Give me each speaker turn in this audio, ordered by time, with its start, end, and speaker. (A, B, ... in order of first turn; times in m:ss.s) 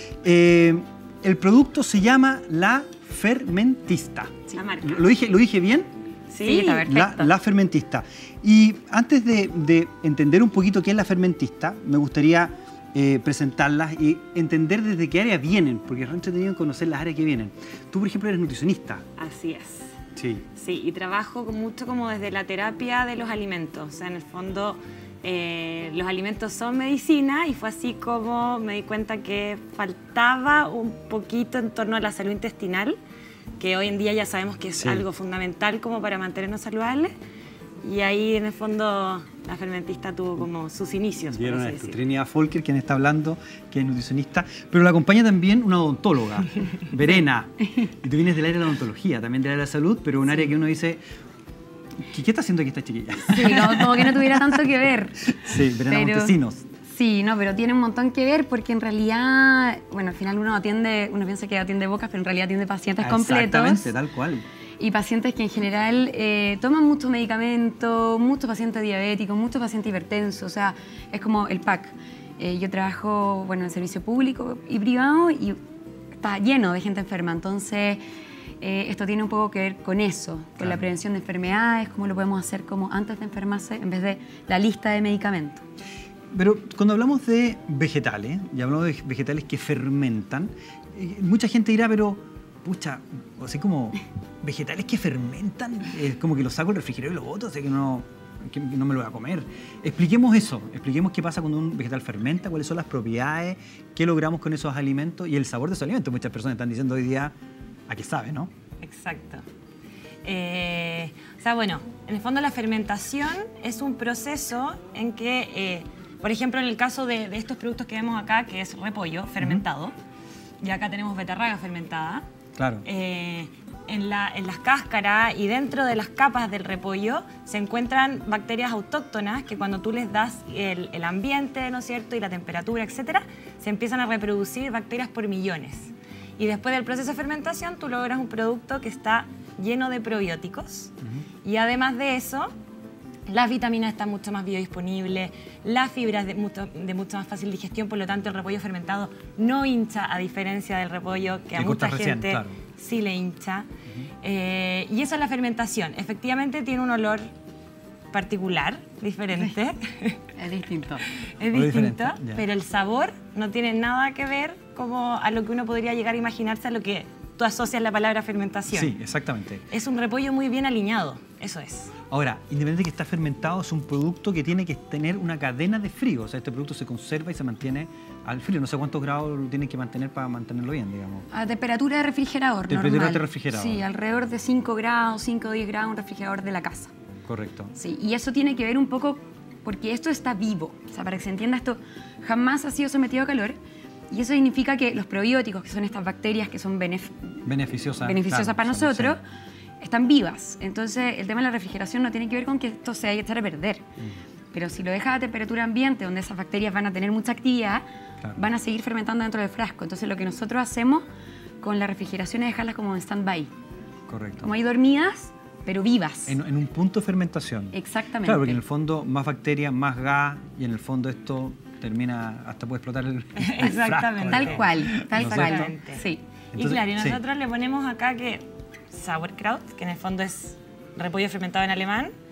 0:00.2-0:05.9 A
0:04.5-0:05.0 B
0:06.3-0:06.9 B
0:06.4-0:07.4 C
0:06.8-0:19.1 A
0:19.2-0:20.0 B
0:20.2-0:20.4 A
0:20.5-0:33.0 B
0:33.6-0:37.1 B
0:34.8-0:35.0 A
0:37.8-0:42.0 B
0:41.3-0:51.0 A
0:52.0-0:54.4 A
0:53.3-1:03.9 C
0:55.3-0:56.7 A
1:03.0-1:04.5 A
1:04.8-1:15.6 C
1:16.2-1:18.0 C
1:18.6-1:25.6 C
1:26.3-1:47.3 A
1:47.9-1:48.5 A
1:48.8-1:49.4 B
1:50.2-1:59.9 B
2:00.6-2:02.2 B
2:02.6-2:02.8 A
2:02.8-2:20.9 B
2:21.4-2:22.5 B
2:23.3-2:33.7 B
2:31.5-2:32.6 A
2:34.2-2:37.3 B
2:38.1-2:40.3 B
2:40.4-2:41.1 C
2:41.0-2:49.0 B
2:41.4-2:42.4 A
2:48.7-2:49.6 A
2:49.7-2:52.0 B
2:52.1-3:01.3 A
3:01.3-3:06.9 C
3:02.7-3:03.8 A
3:07.3-3:07.8 A
3:07.8-3:13.6 C
3:14.1-3:17.4 C
3:17.4-3:19.2 A
3:18.0-3:19.2 C
3:19.8-3:23.8 C
3:24.5-3:27.8 C
3:28.4-3:31.0 C
3:31.6-3:33.5 C
3:34.1-3:34.5 A
3:34.4-3:36.4 C
3:36.3-3:45.7 A
3:37.7-3:38.6 C
3:43.4-3:52.1 B
3:43.6-3:46.2 C
3:46.5-3:47.2 A